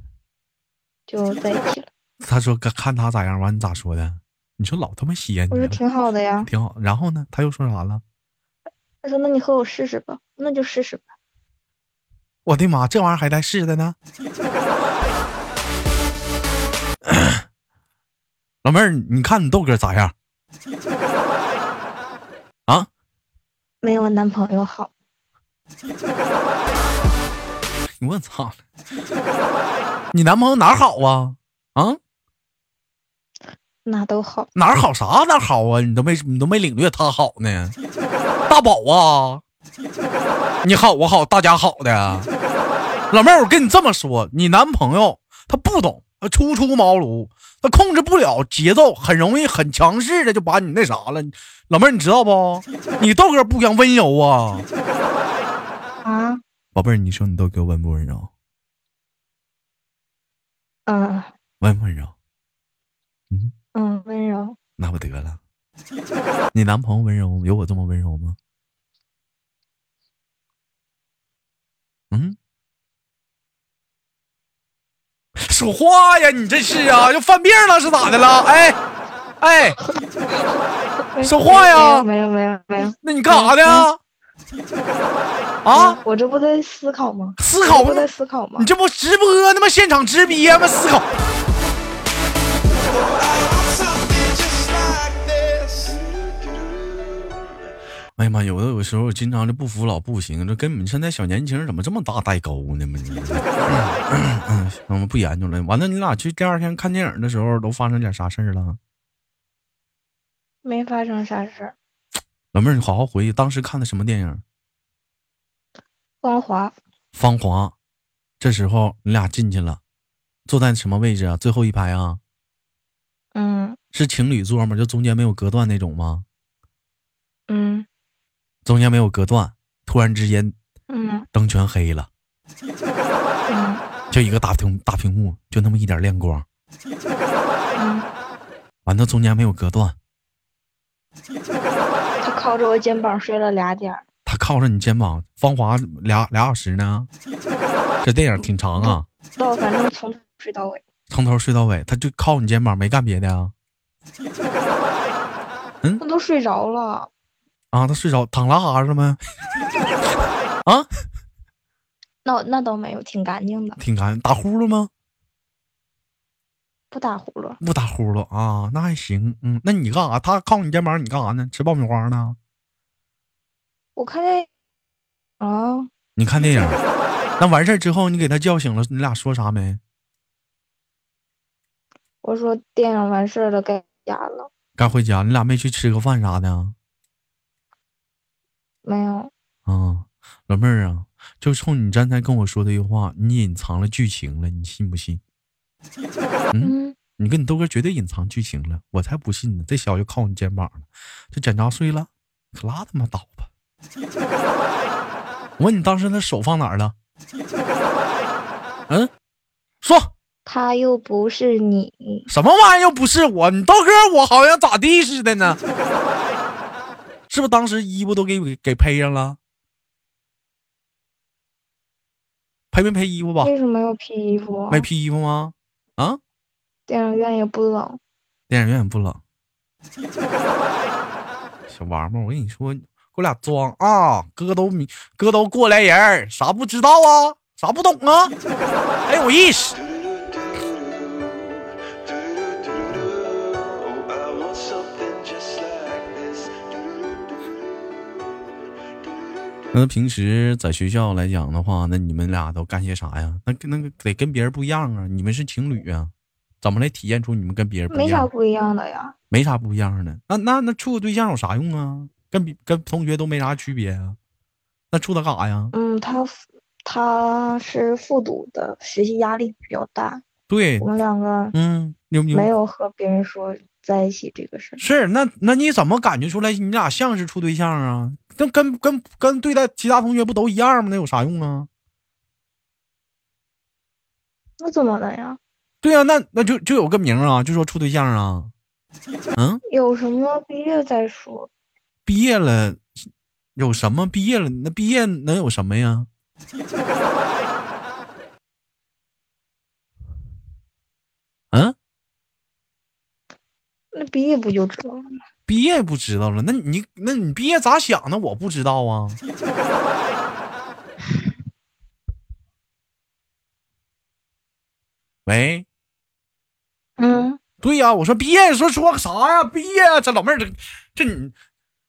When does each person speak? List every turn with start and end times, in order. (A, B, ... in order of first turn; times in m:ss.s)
0:01.1-0:01.9 A
0:02.2-0:05.8 B
0:05.5-0:06.5 A
0:06.4-0:08.0 B
0:09.0-0:11.0 A
0:12.5-0:14.0 B
0:17.0-0:17.4 B
0:18.6-0:20.1 B
0:23.8-0:24.9 A
0:28.0-0:28.6 B
0:30.1-0:32.0 B
0:33.8-0:34.5 A
0:34.6-0:37.8 B
0:38.5-0:39.4 B
0:40.6-0:42.3 B
0:43.1-0:54.7 B
0:56.0-0:56.4 A
0:56.8-0:58.3 B
1:00.9-1:01.3 A
1:01.6-1:02.1 B
1:03.8-1:04.6 A
1:04.8-1:05.4 B
1:06.5-1:08.4 B
1:12.1-1:12.4 B
1:15.4-1:18.8 B
1:19.4-1:19.8 B
1:21.1-1:23.9 A
1:21.2-1:22.1 B
1:23.0-1:24.0 B
1:25.6-1:26.0 B
1:25.7-1:28.7 A
1:27.4-1:31.1 B
1:32.7-1:37.2 C
1:38.2-1:48.8 B
1:50.6-1:51.8 A
1:52.5-1:54.4 B
1:56.2-1:56.8 A
1:57.2-1:57.8 B
1:58.4-1:59.8 B
2:00.5-2:02.2 B
2:03.4-2:03.8 A
2:03.9-2:06.2 B
2:07.5-2:07.9 A
2:08.6-2:10.6 B
2:10.9-2:11.3 A
2:11.3-2:12.1 B
2:13.5-2:13.8 A
2:14.1-2:16.5 B
2:17.7-2:18.1 A
2:18.9-2:20.0 B
2:22.2-2:24.0 A
2:24.3-2:27.1 B
2:28.0-2:29.0 B
2:28.4-2:30.8 A
2:31.1-2:33.5 B
2:36.0-2:37.1 A
2:37.7-2:39.2 B
2:42.2-2:43.8 A
2:43.8-2:44.9 B
2:46.9-2:47.6 A
2:47.6-2:52.4 B
2:54.0-2:54.5 A
2:55.4-2:55.9 A
2:56.2-2:56.8 B
2:57.4-2:59.8 B
3:02.2-3:04.5 A
3:04.8-3:06.8 B
3:08.8-3:09.3 A
3:09.7-3:15.2 B
3:16.5-3:23.5 B
3:16.6-3:17.0 A
3:25.6-3:27.0 B
3:29.8-3:30.1 B
3:30.5-3:32.3 A
3:32.3-3:35.6 B
3:37.3-3:39.4 B
3:42.7-3:43.5 B
3:43.4-3:44.9 A
3:44.7-3:46.2 B
3:46.9-3:48.0 A
3:48.5-3:49.2 B
3:51.7-3:58.3 B
3:59.1-3:59.8 B
3:59.8-4:07.5 C
4:09.7-4:18.3 B
4:17.9-4:19.2 A
4:19.3-4:24.2 B
4:24.9-4:25.7 B
4:25.7-4:30.2 A
4:30.5-4:30.9 B
4:30.8-4:31.6 A
4:31.5-4:32.5 B
4:32.3-4:34.8 A
4:34.8-4:41.7 B
4:44.6-4:45.4 A
4:45.8-4:48.5 B
4:49.4-4:49.6 B
4:49.7-4:51.5 A
4:52.1-4:52.9 B
4:53.6-4:56.1 B
5:03.9-5:05.1 A
5:05.5-5:09.2 B
5:15.3-5:15.7 B
5:17.0-5:17.4 A
5:17.6-5:21.3 B